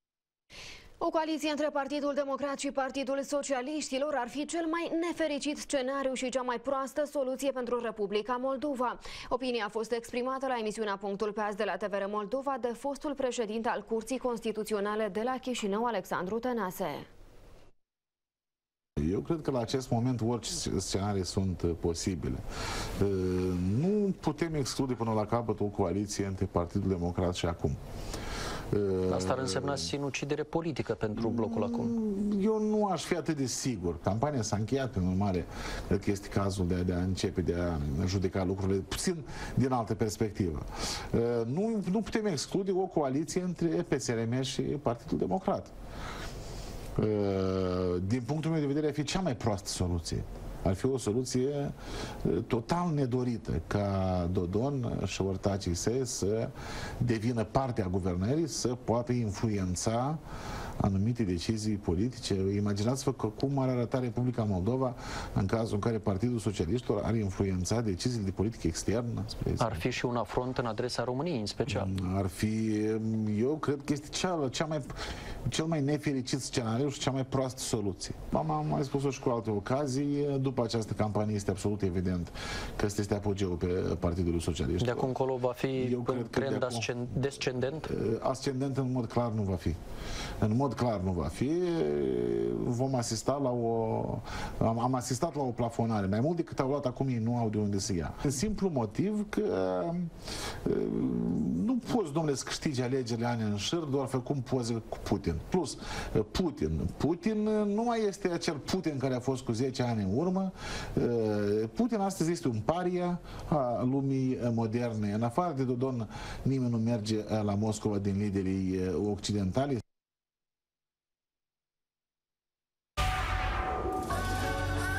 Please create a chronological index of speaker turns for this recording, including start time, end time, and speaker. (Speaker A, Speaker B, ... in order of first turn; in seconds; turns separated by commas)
Speaker A: 1.0-17.1, Speaker B: 19.0-22.4, Speaker B: 23.0-27.8, Speaker B: 28.7-29.9, Speaker C: 29.1-31.9, Speaker B: 31.1-45.7, Speaker B: 47.0-60.2, Speaker B: 60.8-69.8, Speaker C: 69.6-71.9, Speaker B: 71.7-74.9, Speaker B: 75.5-85.2, Speaker C: 84.8-87.9, Speaker B: 85.8-87.0, Speaker B: 87.9-89.8, Speaker B: 90.4-100.1, Speaker B: 100.6-119.8